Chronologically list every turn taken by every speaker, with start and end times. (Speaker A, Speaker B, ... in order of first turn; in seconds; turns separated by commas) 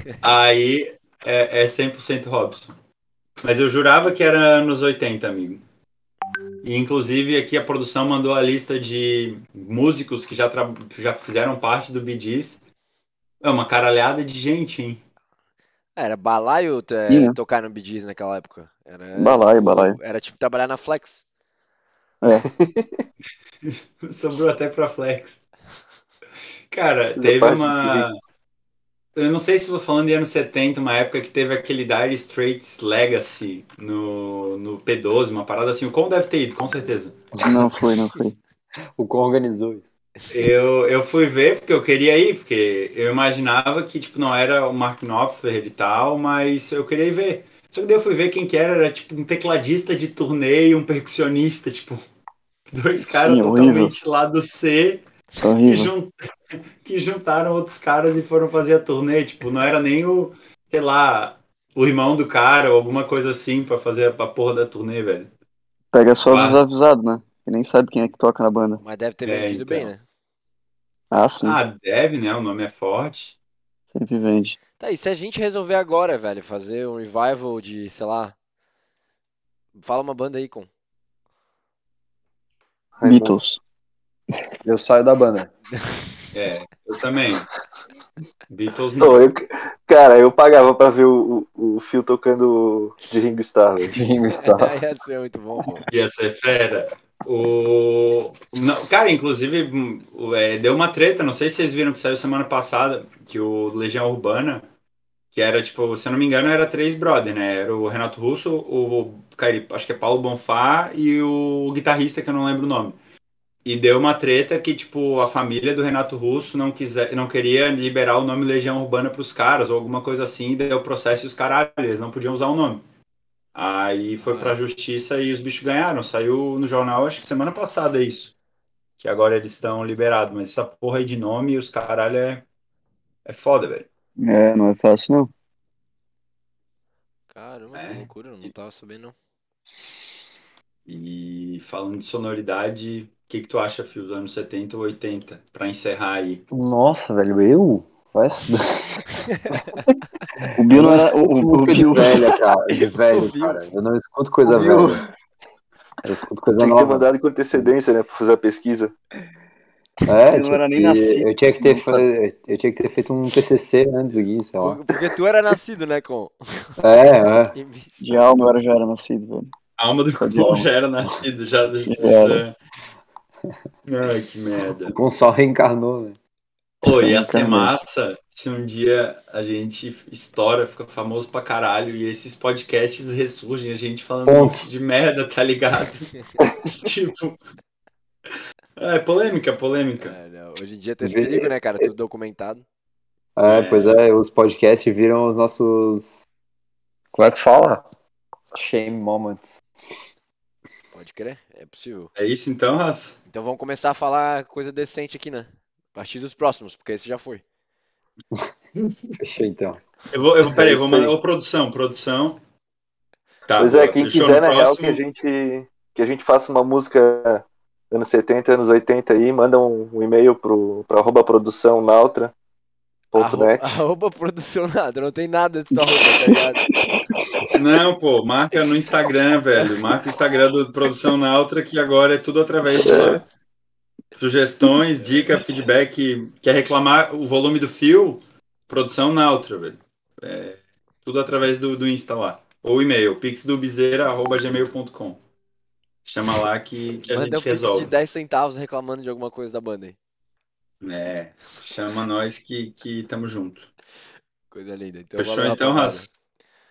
Speaker A: 0.2-2.7, Speaker A: 3.4-5.6, Speaker A: 6.6-12.6, Speaker A: 13.4-15.0, Speaker B: 16.0-21.2, Speaker C: 17.1-17.4, Speaker C: 19.2-20.0, Speaker D: 22.3-23.0, Speaker A: 23.6-25.4, Speaker A: 26.7-28.2, Speaker D: 27.1-28.1, Speaker A: 29.2-37.2, Speaker C: 37.5-38.4, Speaker E: 39.0-39.9, Speaker A: 40.3-52.0, Speaker A: 52.7-55.0, Speaker C: 53.0-54.0, Speaker C: 55.4-55.9, Speaker A: 55.6-56.1, Speaker A: 56.8-65.3, Speaker C: 65.9-68.8, Speaker A: 66.2-66.6, Speaker B: 68.8-70.0, Speaker A: 69.2-69.9, Speaker C: 71.1-71.6, Speaker A: 71.4-73.4, Speaker C: 73.9-74.6, Speaker B: 74.8-78.4, Speaker B: 79.8-80.7, Speaker D: 83.0-83.4, Speaker C: 83.0-83.6, Speaker E: 84.6-85.5, Speaker A: 86.3-87.5, Speaker A: 88.5-89.2, Speaker D: 89.0-94.0, Speaker E: 93.9-94.7, Speaker B: 94.4-95.9, Speaker A: 95.9-104.7, Speaker A: 105.3-113.0, Speaker A: 113.7-122.8, Speaker A: 123.5-128.3, Speaker B: 124.2-124.6, Speaker A: 129.0-132.5, Speaker A: 133.2-133.9, Speaker C: 134.2-135.3, Speaker B: 137.3-139.2, Speaker A: 137.7-138.1, Speaker A: 140.9-146.4, Speaker E: 146.5-149.0, Speaker B: 149.5-149.8, Speaker C: 150.6-152.3, Speaker E: 150.7-155.0, Speaker B: 152.7-153.6, Speaker C: 154.4-155.0, Speaker E: 156.0-157.7, Speaker D: 156.6-158.9, Speaker E: 160.1-164.8, Speaker C: 160.3-162.1, Speaker B: 164.1-166.4, Speaker E: 166.8-167.6, Speaker B: 167.5-168.0, Speaker C: 168.0-169.5, Speaker A: 169.8-172.6, Speaker C: 170.2-170.7, Speaker C: 171.9-172.4, Speaker A: 173.8-174.9, Speaker E: 174.8-176.2, Speaker A: 176.8-186.1, Speaker C: 177.0-177.7, Speaker E: 184.2-184.7, Speaker A: 186.7-187.4, Speaker A: 188.8-190.2, Speaker B: 190.0-192.6, Speaker E: 191.0-191.8, Speaker E: 193.4-196.3, Speaker A: 193.5-194.0, Speaker E: 197.1-197.9, Speaker E: 198.5-199.6, Speaker B: 200.9-202.1, Speaker A: 202.2-203.2, Speaker B: 203.3-207.4, Speaker E: 209.2-209.8, Speaker A: 210.1-212.4, Speaker D: 210.4-211.2, Speaker A: 213.5-215.0, Speaker D: 213.6-222.3, Speaker D: 223.1-223.8, Speaker B: 223.2-226.6, Speaker C: 225.8-226.0, Speaker C: 226.8-227.1, Speaker A: 227.6-233.2, Speaker D: 232.7-233.2, Speaker A: 234.2-245.2, Speaker A: 246.1-247.9, Speaker B: 247.1-250.0, Speaker A: 250.8-253.7, Speaker B: 254.5-256.1, Speaker A: 255.2-256.1